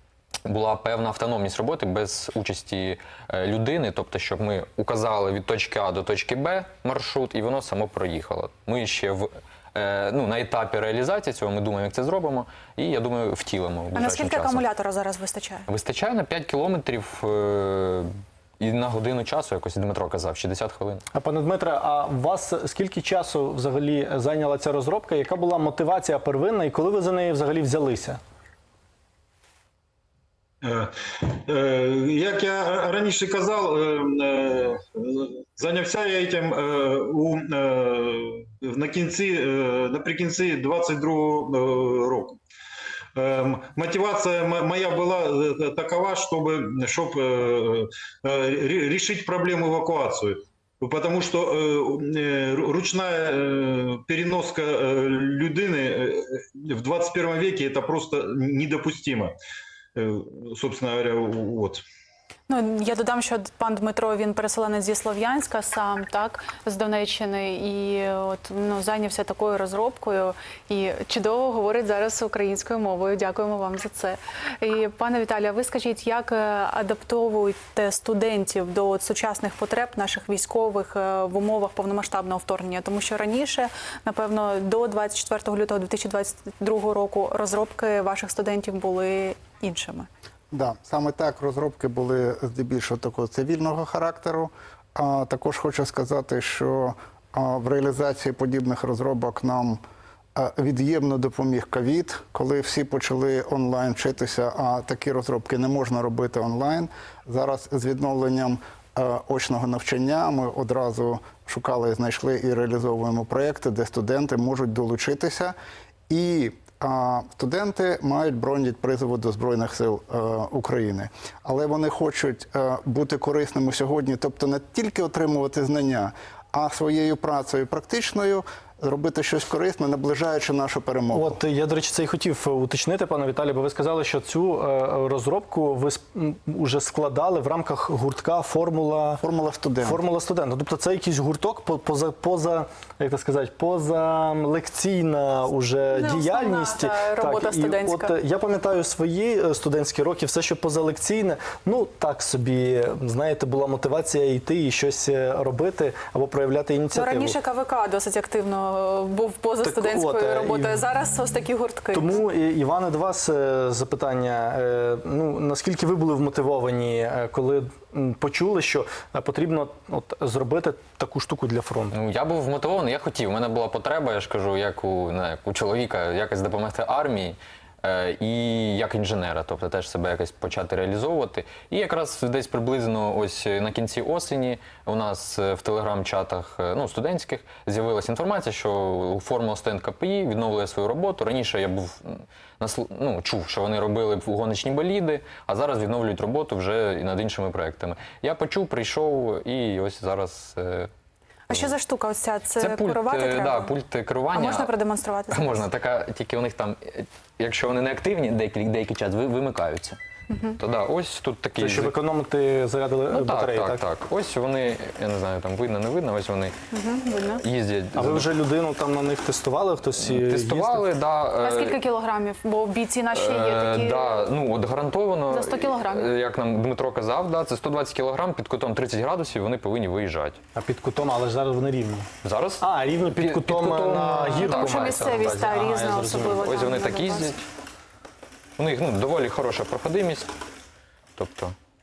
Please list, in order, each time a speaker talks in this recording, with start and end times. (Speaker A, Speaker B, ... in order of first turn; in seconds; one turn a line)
Speaker A: 0.4-14.6
Speaker B: 13.9-15.7
Speaker A: 15.7-21.0
Speaker C: 21.1-28.2
Speaker D: 30.6-42.4
Speaker D: 43.1-59.3
Speaker D: 59.9-61.8
Speaker B: 62.5-90.1
Speaker E: 90.5-99.8
Speaker E: 100.3-115.5
Speaker E: 116.1-131.4
Speaker C: 131.1-139.2
Speaker E: 139.2-140.0
Speaker C: 139.8-157.3
Speaker B: 145.9-148.1
Speaker B: 156.9-162.2
Speaker C: 159.6-160.8
Speaker C: 161.9-171.9
Speaker A: 171.9-200.9
Speaker B: 201.5-203.7
Speaker A: 202.6-204.7
Speaker B: 204.3-205.7
Speaker A: 205.3-210.0
Speaker B: 210.3-210.6
Speaker A: 210.6-211.9
Speaker C: 211.6-213.8
Speaker A: 213.1-216.5
Speaker B: 216.7-217.4
Speaker A: 217.4-218.3
Speaker C: 217.9-220.8
Speaker A: 220.0-221.8
Speaker B: 221.4-224.3
Speaker A: 223.2-230.4
Speaker B: 225.3-226.1
Speaker C: 230.5-232.1
Speaker A: 232.2-235.2
Speaker C: 232.6-236.3
Speaker B: 234.4-237.3
Speaker A: 236.2-237.4
Speaker A: 238.6-240.3
Speaker A: 241.2-241.5